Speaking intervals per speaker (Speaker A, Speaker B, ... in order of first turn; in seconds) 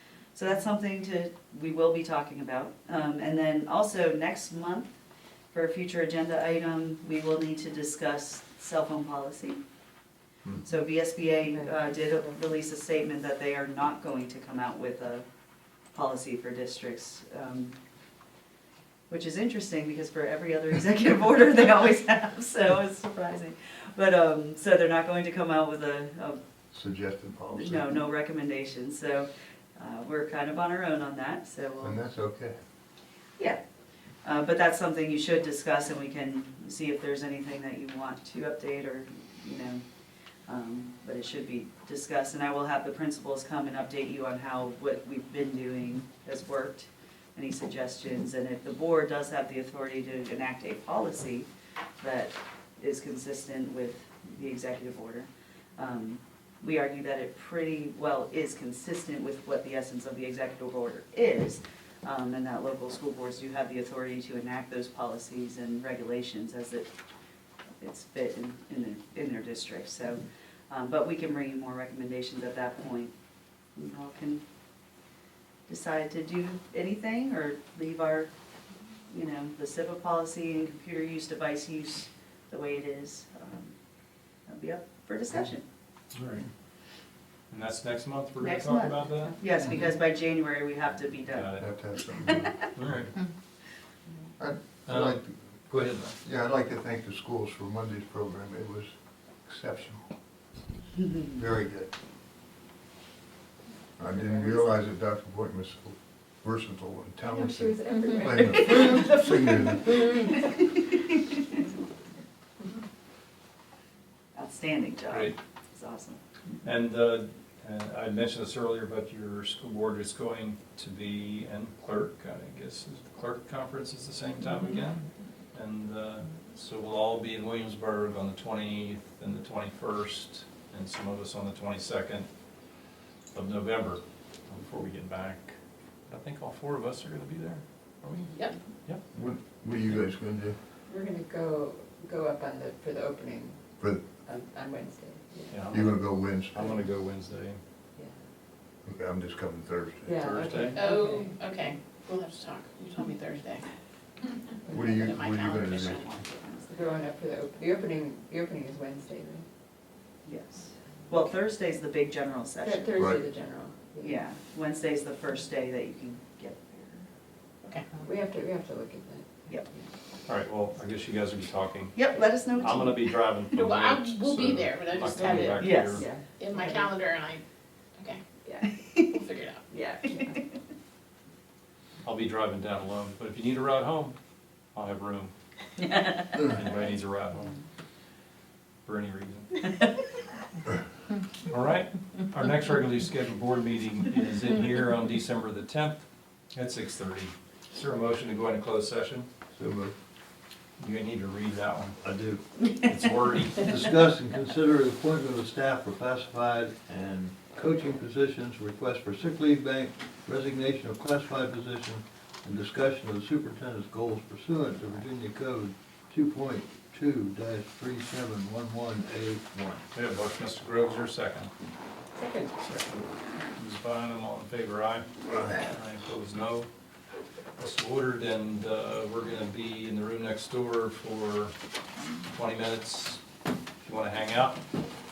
Speaker A: 0.3-5.0, 5.5-9.6, 10.6-15.2, 15.9-17.8, 19.1-26.4, 27.5-32.0, 34.2-39.8, 40.5-51.5, 52.0-66.9, 67.8-73.1, 73.8-74.4, 75.7-78.3, 79.1-83.8, 84.5-85.6, 88.4-91.7, 114.3-116.2, 155.9-156.7, 160.2-163.0, 164.0-167.1, 171.9-173.0, 175.6-176.1, 178.8-179.2
Speaker B: 11.5-12.3, 104.1-104.6, 107.2-109.1, 140.9-143.6, 144.2-145.6, 150.0-151.3, 154.7-154.9, 156.7-159.4, 162.6-164.2, 168.0-169.9, 175.9-176.9, 178.4-178.8, 179.7-180.5, 222.2-222.5
Speaker C: 26.7-27.9, 31.8-32.5, 91.6-92.7, 94.4-95.4, 96.2-98.9, 99.4-100.0, 101.3-101.9, 104.0-110.1, 139.1-140.6, 143.8-144.1, 145.7-146.7, 148.8-150.2, 154.7-156.0, 163.0-163.2, 199.6-199.9
Speaker D: 86.1-86.5, 87.5-89.4, 91.3-91.7, 92.7-93.1, 94.9-96.2, 116.6-132.3, 133.3-135.6, 136.1-138.3, 145.5-147.6, 150.2-150.8, 170.3-176.1, 182.0-184.2, 184.7-185.3, 185.9-187.6, 188.8-189.6, 191.5-199.3, 200.8-202.0, 202.8-204.0, 219.9-221.5, 222.6-226.7, 227.6-231.5, 232.3-233.2, 233.8-234.6
Speaker E: 150.8-153.7, 154.8-156.2, 173.5-175.7, 176.4-177.4, 178.0-178.2, 179.1-179.6
Speaker F: 202.0-202.4, 203.6-219.8